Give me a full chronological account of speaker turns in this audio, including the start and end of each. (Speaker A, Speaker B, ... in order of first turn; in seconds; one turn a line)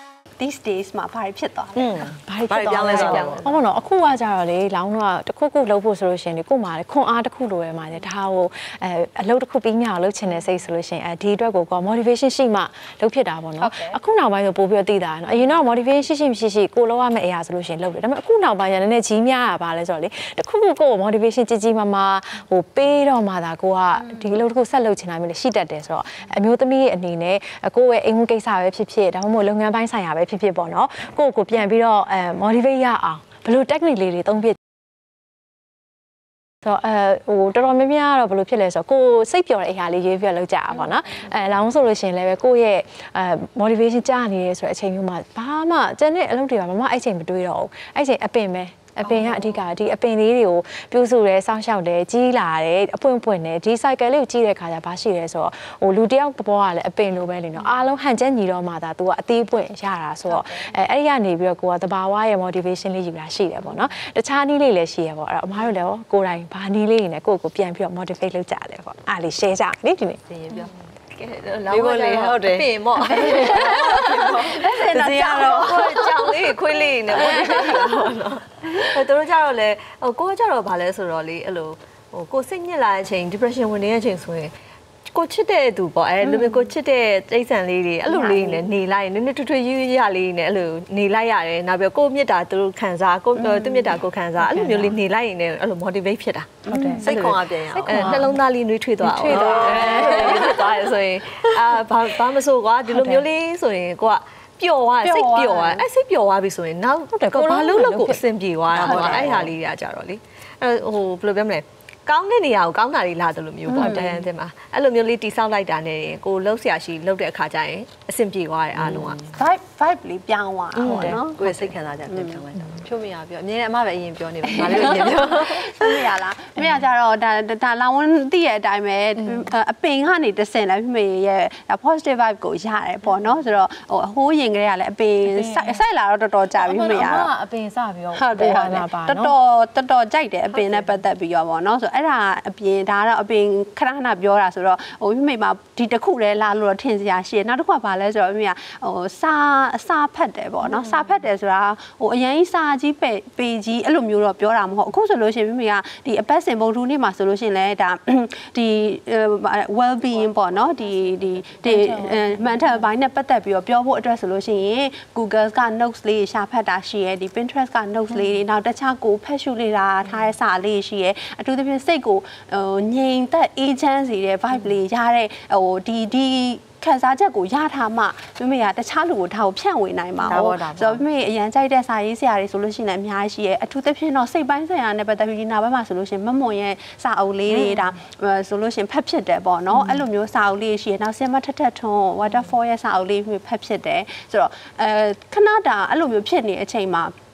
Speaker A: 0.4-2.0
Speaker B: 1.7-3.5
Speaker C: 2.2-34.6
Speaker D: 2.9-3.3
Speaker A: 13.6-13.9
Speaker C: 36.6-70.2
Speaker A: 49.0-49.5
Speaker B: 70.3-70.7
Speaker D: 70.5-84.5
Speaker B: 71.7-72.7
Speaker A: 73.0-78.1
Speaker D: 85.1-119.3
Speaker A: 86.2-86.7
Speaker A: 88.1-88.6
Speaker A: 93.3-94.0
Speaker C: 94.4-95.0
Speaker C: 96.7-97.2
Speaker B: 97.0-98.2
Speaker C: 97.7-98.4
Speaker C: 99.0-100.8
Speaker B: 99.4-100.4
Speaker C: 102.8-103.2
Speaker A: 105.0-105.8
Speaker C: 107.1-108.2
Speaker B: 108.7-109.5
Speaker C: 108.8-109.3
Speaker A: 113.7-114.1
Speaker B: 118.8-119.1
Speaker A: 119.3-122.4
Speaker D: 120.8-121.2
Speaker B: 121.2-125.9
Speaker A: 124.4-137.3
Speaker C: 135.3-135.8
Speaker C: 136.6-139.3
Speaker A: 138.1-197.1
Speaker C: 161.6-162.8
Speaker B: 180.3-181.0
Speaker B: 187.5-187.8